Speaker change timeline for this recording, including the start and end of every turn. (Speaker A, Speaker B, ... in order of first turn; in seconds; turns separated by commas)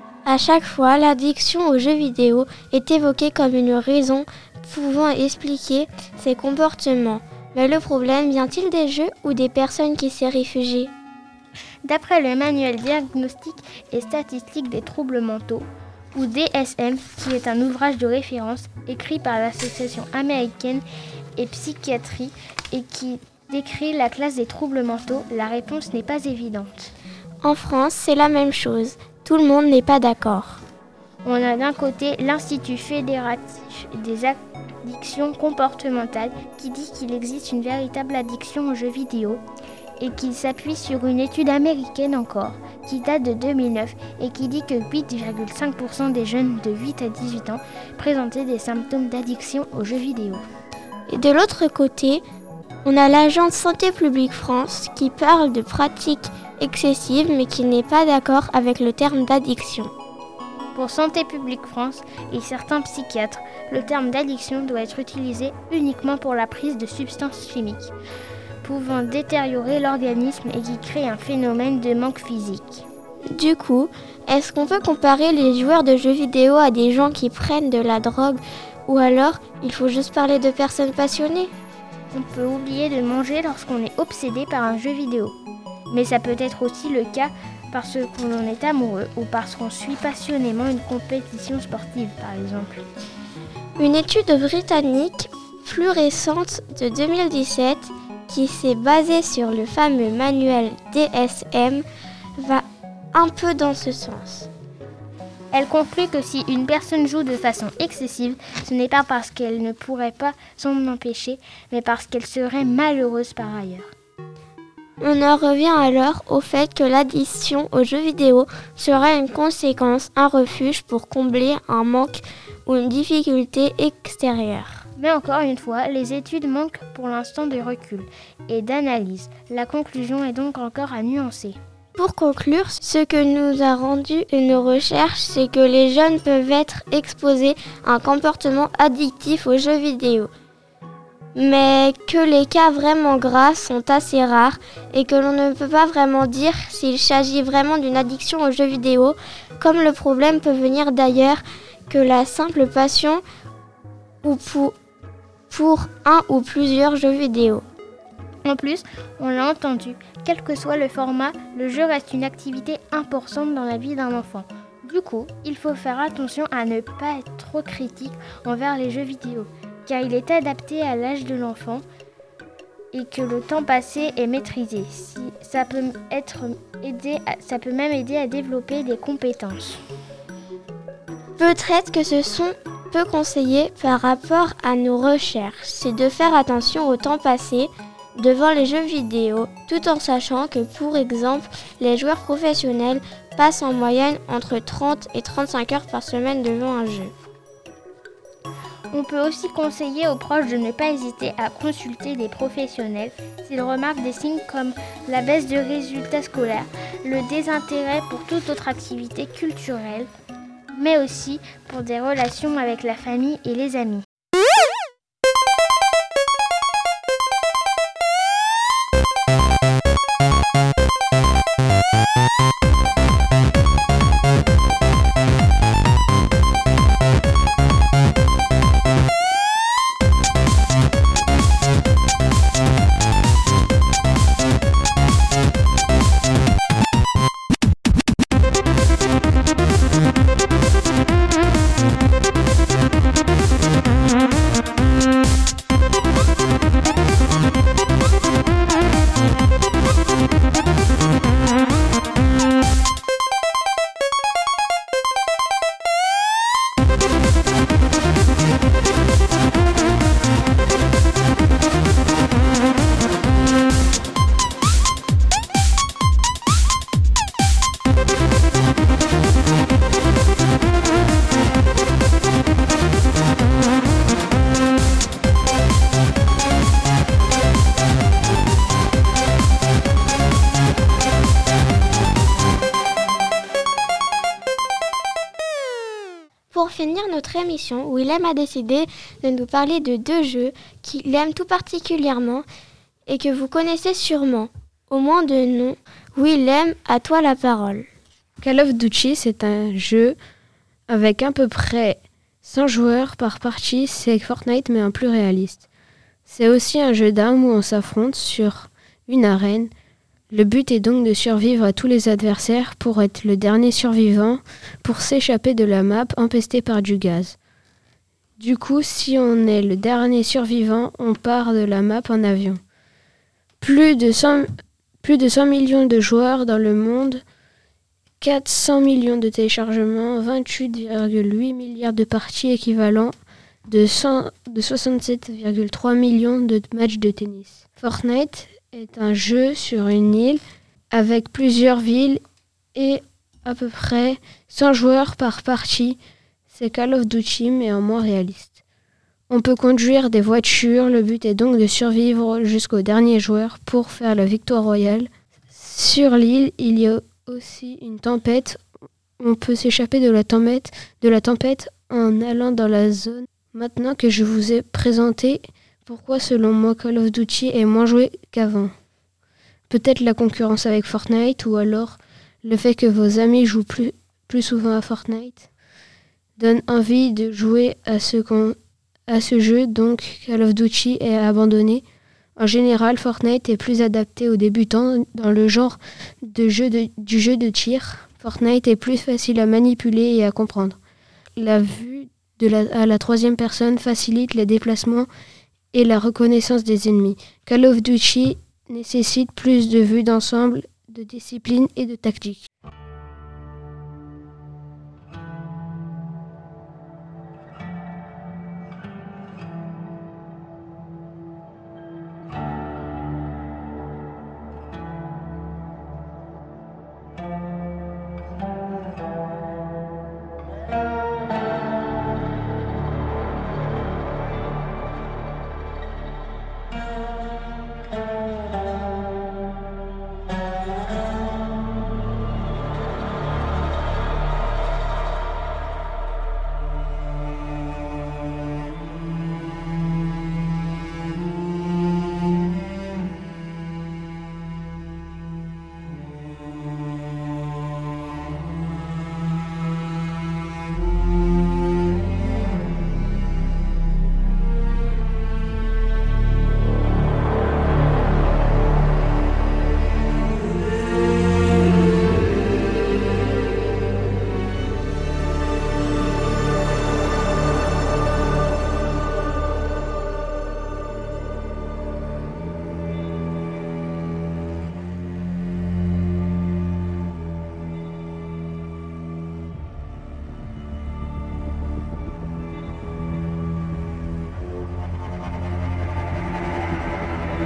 Speaker A: 0.2-10.9, Speaker B: 11.8-20.8, Speaker B: 21.4-26.9, Speaker A: 27.4-30.6, Speaker B: 31.2-39.4, Speaker B: 40.0-50.4, Speaker A: 51.1-52.2, Speaker A: 52.9-59.9, Speaker B: 60.8-67.9, Speaker B: 68.6-72.8, Speaker A: 73.3-81.5, Speaker B: 82.1-85.3, Speaker B: 85.9-92.8, Speaker A: 93.8-101.8, Speaker A: 102.4-104.5, Speaker B: 105.5-113.9, Speaker A: 115.0-124.8, Speaker B: 125.0-131.6, Speaker A: 132.0-140.3, Speaker A: 141.3-153.2, Speaker A: 154.2-154.7, Speaker A: 155.5-157.6, Speaker B: 158.4-171.8, Speaker B: 172.9-179.8, Speaker A: 181.4-197.1, Speaker B: 198.9-210.1, Speaker B: 210.8-214.1, Speaker A: 286.5-292.5, Speaker A: 293.1-297.9, Speaker C: 298.4-300.2, Speaker C: 300.9-305.7, Speaker C: 306.3-309.7, Speaker C: 310.3-317.4, Speaker C: 318.4-322.6, Speaker C: 323.6-324.5, Speaker C: 325.0-327.2, Speaker C: 328.2-333.1, Speaker C: 333.7-340.4, Speaker C: 340.9-342.2, Speaker C: 342.8-346.0, Speaker C: 346.5-348.6, Speaker C: 349.3-358.6, Speaker C: 359.2-368.7, Speaker C: 369.7-375.5, Speaker C: 376.4-378.6, Speaker C: 379.1-381.8, Speaker C: 382.4-390.8, Speaker C: 391.4-395.1, Speaker C: 395.7-402.5